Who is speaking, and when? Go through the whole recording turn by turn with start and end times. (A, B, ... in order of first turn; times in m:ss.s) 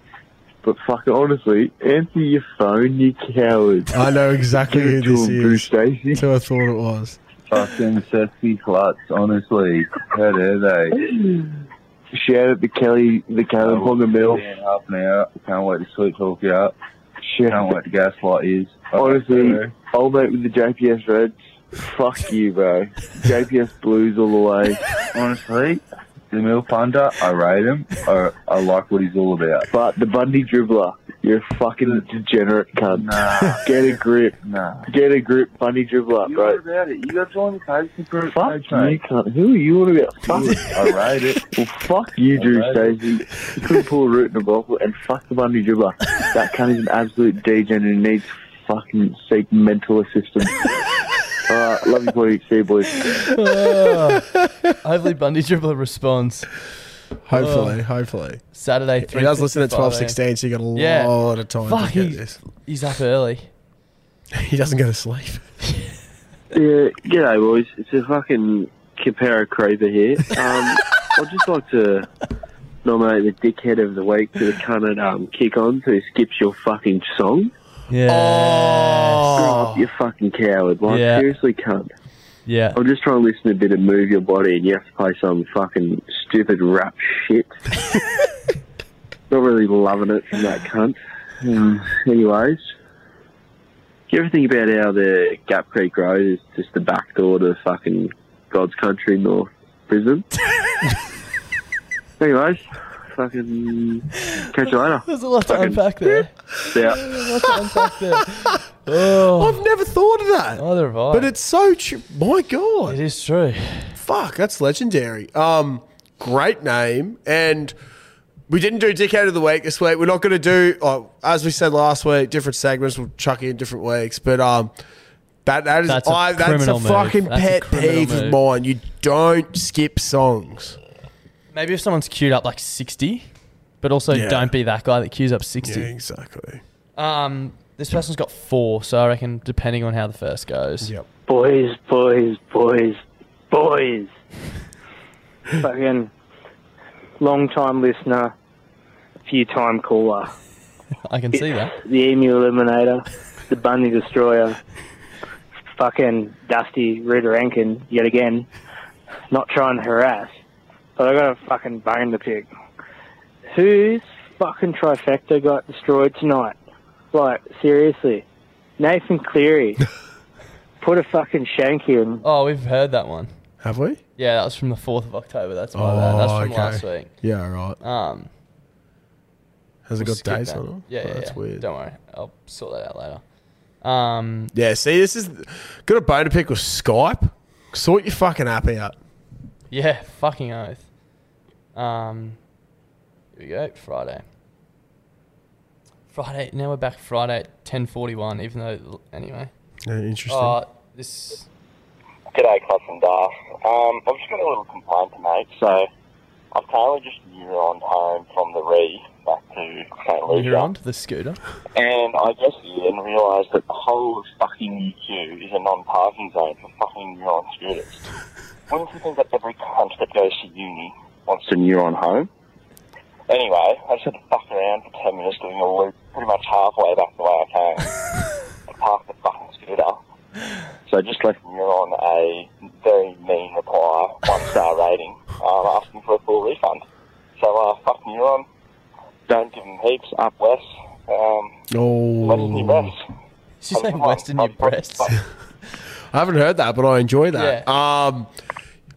0:00.6-0:03.9 A
0:03.9-0:07.2 B
0:04.6-0:06.2 A
0:07.5-0:10.9 C
0:12.1-0:14.4 A
0:13.6-0:16.7 C
0:17.3-0:17.6 A
0:17.4-0:19.8 C
0:19.0-0:24.8 A
0:25.1-0:29.7 C
0:29.7-0:34.4 A
0:32.9-0:34.9 C
0:34.9-0:36.6 A
0:36.2-0:39.0 C
0:38.3-0:40.7 A
0:40.2-0:41.4 C
0:41.5-0:50.7 A
0:42.3-0:43.0 C
0:51.5-0:53.2 A
0:53.2-0:54.2 D
0:54.8-0:56.5 D
0:57.2-0:58.4 B
0:57.3-0:57.8 D
0:58.5-1:00.2 D
0:59.0-1:02.4 B
1:00.7-1:03.5 D
1:04.3-1:05.4 B
1:06.5-1:12.1 A
1:12.8-1:17.5 A
1:17.9-1:19.7 D
1:18.1-1:19.6 B
1:19.3-1:21.9 A
1:20.8-1:21.3 D
1:22.4-1:22.8 D
1:22.7-1:27.5 A
1:29.3-1:32.6 A
1:34.1-1:40.2 A
1:42.2-1:42.6 A
1:43.1-1:46.1 A
1:45.0-1:49.6 D
1:46.7-1:47.0 A
1:49.1-1:53.0 B
1:50.6-1:51.3 D
1:52.9-1:54.0 D
1:53.9-1:57.7 B
1:58.5-2:04.7 B
2:05.4-2:10.8 B
2:05.9-2:08.4 D
2:11.5-2:13.3 D
2:13.8-2:15.9 D
2:14.1-2:14.5 B
2:15.6-2:16.6 B
2:17.0-2:20.9 D
2:21.3-2:24.1 E
2:25.6-2:26.1 E
2:27.2-2:28.3 E
2:29.2-2:30.3 E
2:31.0-2:31.7 D
2:31.8-2:34.6 E
2:35.8-2:38.5 E
2:39.3-2:40.4 E
2:41.0-2:42.5 E
2:43.5-2:46.6 E
2:47.1-2:48.2 E
2:48.8-2:49.8 E
2:50.8-2:52.2 E
2:52.2-2:53.3 D
2:53.6-2:54.0 B
2:54.2-2:57.1 D
2:55.7-2:57.8 B
2:57.8-2:58.3 D
2:59.9-3:01.6 B
3:00.0-3:03.2 D
3:03.8-3:04.5 D
3:04.5-3:09.0 B
3:09.7-3:10.9 D
3:11.7-3:12.4 D
3:13.3-3:14.2 D
3:16.1-3:19.5 D
3:19.8-3:20.6 B
3:20.3-3:21.5 D
3:22.3-3:25.9 F
3:26.5-3:30.7 F
3:30.3-3:31.4 D
3:31.7-3:38.1 F
3:38.7-3:42.3 F
3:43.3-3:47.9 F
3:48.7-3:50.0 F
3:50.9-3:56.8 F
3:57.4-3:58.4 F
3:59.3-4:01.5 F
4:01.7-4:02.9 B
4:02.2-4:03.0 F
4:03.6-4:05.2 D
4:03.7-4:05.1 F
4:06.1-4:08.3 B
4:07.3-4:07.6 D